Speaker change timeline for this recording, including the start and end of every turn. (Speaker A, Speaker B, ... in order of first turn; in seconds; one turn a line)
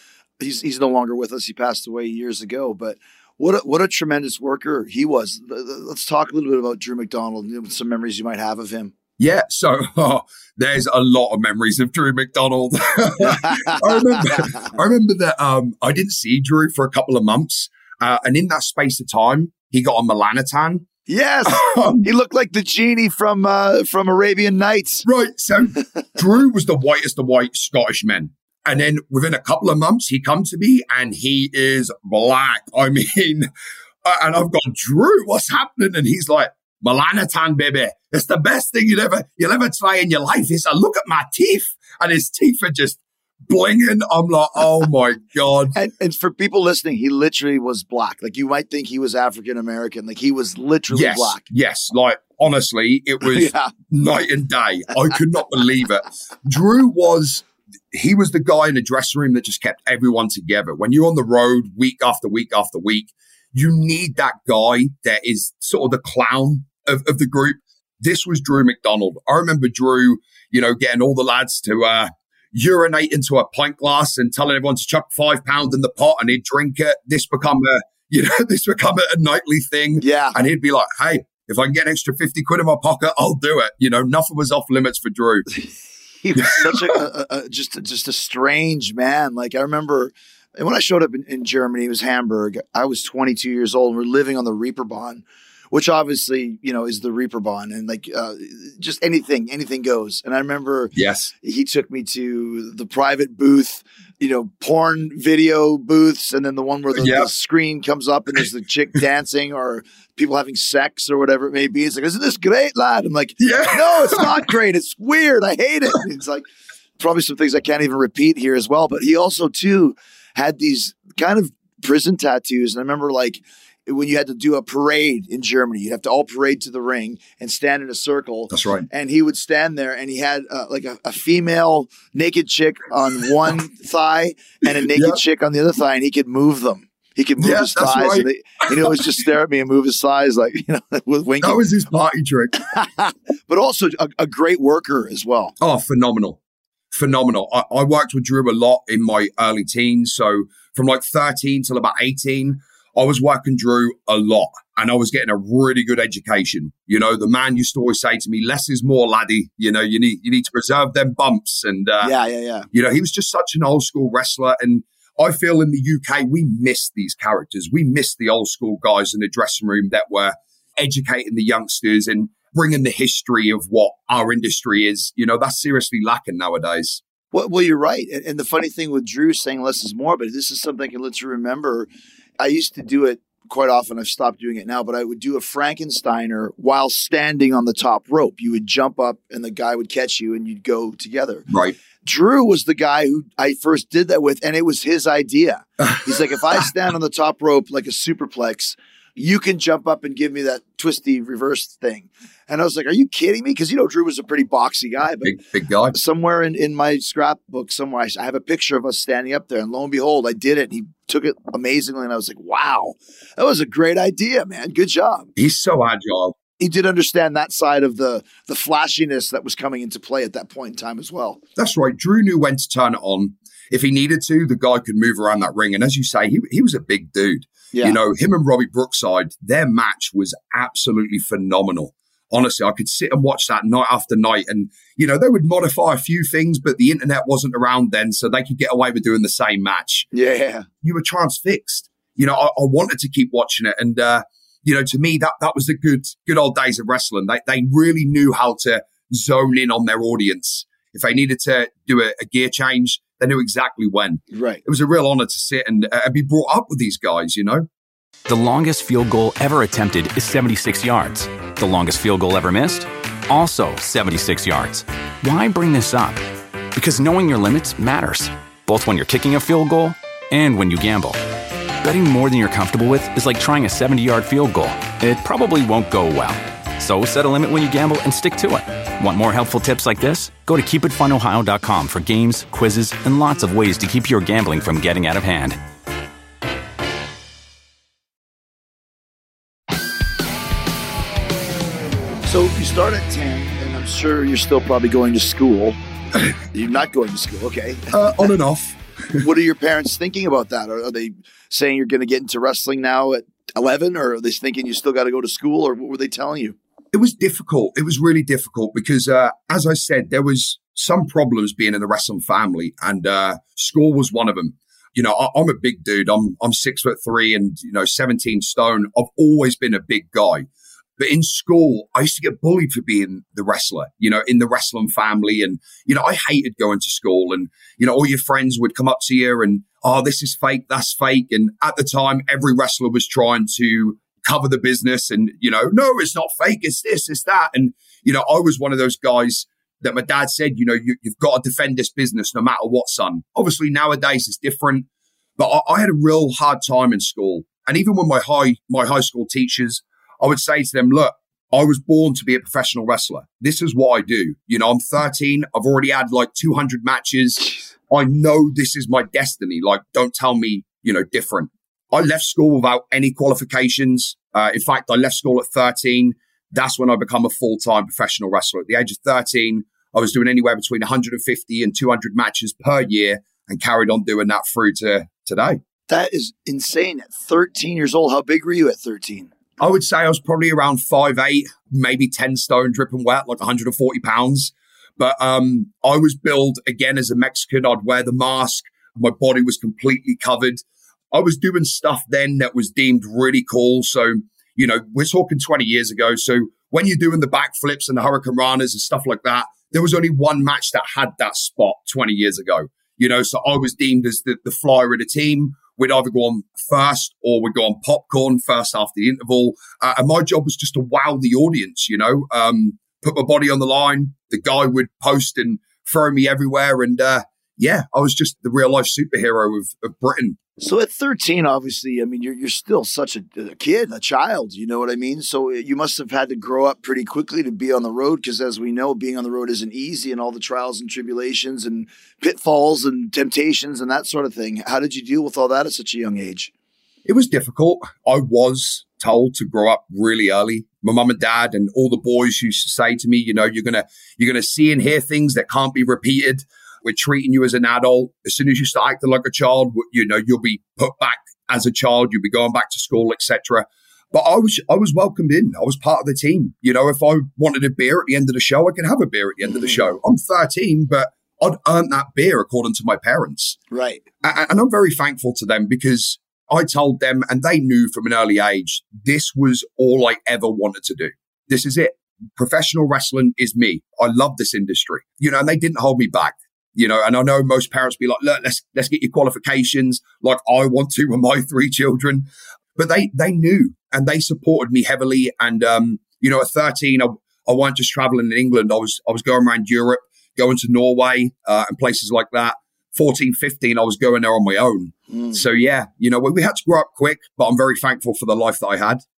Speaker A: 0.4-8.9
Speaker B: 9.2-20.9
Speaker A: 13.3-14.2
Speaker A: 21.1-25.1
Speaker B: 21.5-22.1
Speaker B: 25.1-33.5
Speaker B: 34.0-45.8
Speaker A: 45.7-51.4
Speaker B: 50.9-85.5
Speaker A: 53.2-53.7
Speaker A: 80.0-80.3
Speaker A: 86.2-116.5
Speaker B: 101.0-101.3
Speaker B: 107.0-107.3
Speaker B: 113.4-114.3
Speaker A: 117.0-141.6
Speaker B: 128.5-128.9
Speaker B: 134.9-135.2
Speaker B: 137.4-139.1
Speaker B: 141.4-142.7
Speaker A: 142.6-145.6
Speaker B: 145.6-146.4
Speaker B: 146.9-162.1
Speaker A: 162.0-162.7
Speaker B: 162.7-177.0
Speaker A: 177.3-181.9
Speaker A: 182.4-191.5
Speaker B: 191.5-191.8
Speaker A: 192.0-205.3
Speaker B: 205.2-205.9
Speaker A: 205.9-215.3
Speaker B: 215.4-216.3
Speaker A: 216.6-221.4
Speaker B: 221.6-240.1
Speaker A: 227.7-228.0
Speaker A: 240.1-240.7
Speaker B: 240.8-257.7
Speaker A: 254.3-254.6
Speaker C: 258.3-266.2
Speaker C: 266.8-271.2
Speaker C: 271.8-285.6
Speaker A: 292.3-295.8
Speaker A: 296.4-298.0
Speaker B: 297.9-299.3
Speaker A: 299.2-306.6
Speaker B: 306.9-344.9
Speaker B: 345.4-375.6
Speaker A: 375.9-379.3
Speaker B: 379.6-390.6
Speaker B: 391.1-420.4
Speaker A: 420.6-436.5
Speaker B: 437.1-463.6
Speaker A: 459.6-459.8
Speaker A: 463.7-464.0
Speaker B: 464.2-499.0
Speaker A: 495.1-495.4